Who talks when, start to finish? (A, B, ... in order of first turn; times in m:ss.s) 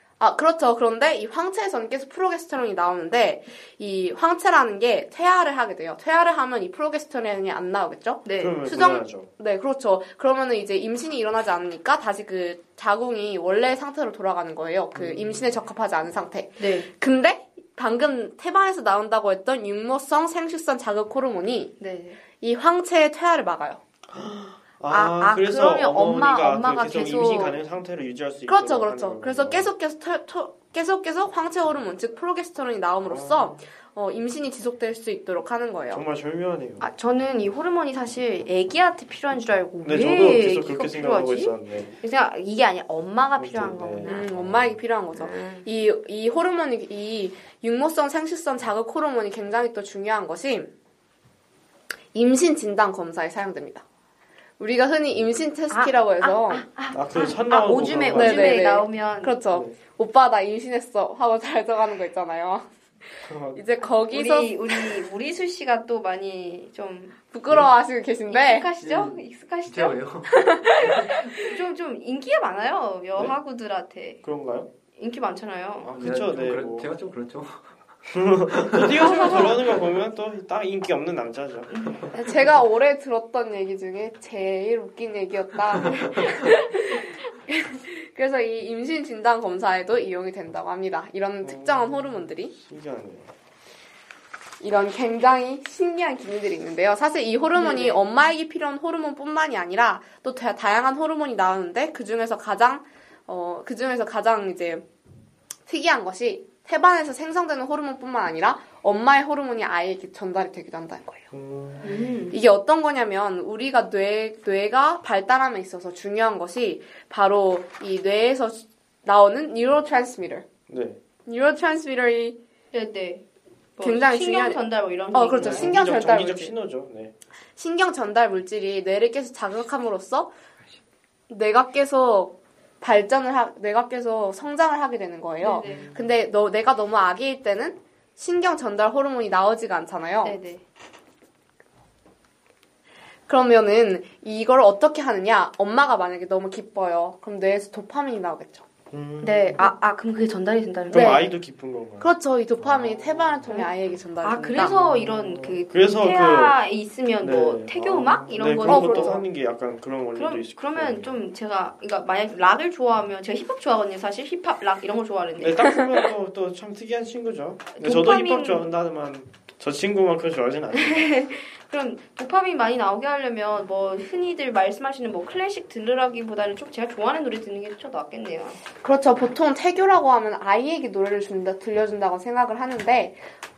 0:00.2-0:21.8 A
0:08.2-0:08.6 B
0:08.4-0:09.3 C
0:15.0-0:15.4 C
0:16.6-0:16.9 B
0:21.8-0:22.2 B
0:22.4-0:23.8 A
0:24.1-0:29.7 C
0:24.9-0:27.6 B
0:28.5-0:36.0 A
0:33.0-0:33.6 C
0:35.9-0:36.8 C
0:36.8-0:44.3 B
0:39.8-0:42.0 C
0:43.4-0:44.8 C
0:44.0-0:50.7 A
0:45.1-0:45.7 B
0:52.1-0:53.8 A
0:54.6-0:56.6 A
0:55.7-0:59.4 B
0:56.9-0:58.6 C
0:58.2-1:02.7 A
1:03.3-1:03.6 C
1:03.6-1:05.0 A
1:04.1-1:07.2 B
1:07.3-1:08.7 A
1:08.3-1:10.0 B
1:08.8-1:11.1 D
1:10.3-1:11.4 A
1:11.0-1:14.2 B
1:14.2-1:14.7 C
1:15.0-1:15.9 B
1:15.8-1:16.9 C
1:15.9-1:17.7 D
1:18.1-1:21.7 C
1:18.5-1:19.0 D
1:19.0-1:19.6 B
1:21.7-1:22.1 B
1:22.1-1:32.5 A
1:31.4-1:33.3 C
1:34.6-1:44.8 A
1:37.6-1:38.2 B
1:45.7-1:51.3 A
1:51.3-1:51.9 C
1:51.8-1:52.4 B
1:52.3-2:00.5 A
2:00.7-2:01.0 C
2:01.3-2:02.4 A
2:02.7-2:03.2 B
2:03.8-2:05.7 B
2:03.8-2:04.6 A
2:05.1-2:06.5 A
2:05.4-2:07.1 C
2:07.6-2:10.3 A
2:11.3-2:20.4 A
2:15.4-2:16.0 B
2:20.2-2:20.6 B
2:23.3-2:28.7 A
2:28.9-2:29.7 C
2:29.2-2:31.2 B
2:30.9-2:33.5 C
2:30.9-2:31.3 A
2:32.0-2:34.8 A
2:33.5-2:33.7 B
2:34.2-2:39.2 B
2:34.6-2:36.6 C
2:37.2-2:41.2 C
2:38.6-2:39.2 A
2:40.2-2:45.8 B
2:45.4-2:51.1 C
2:47.8-2:48.6 B
2:50.8-2:58.6 B
2:58.8-3:03.2 A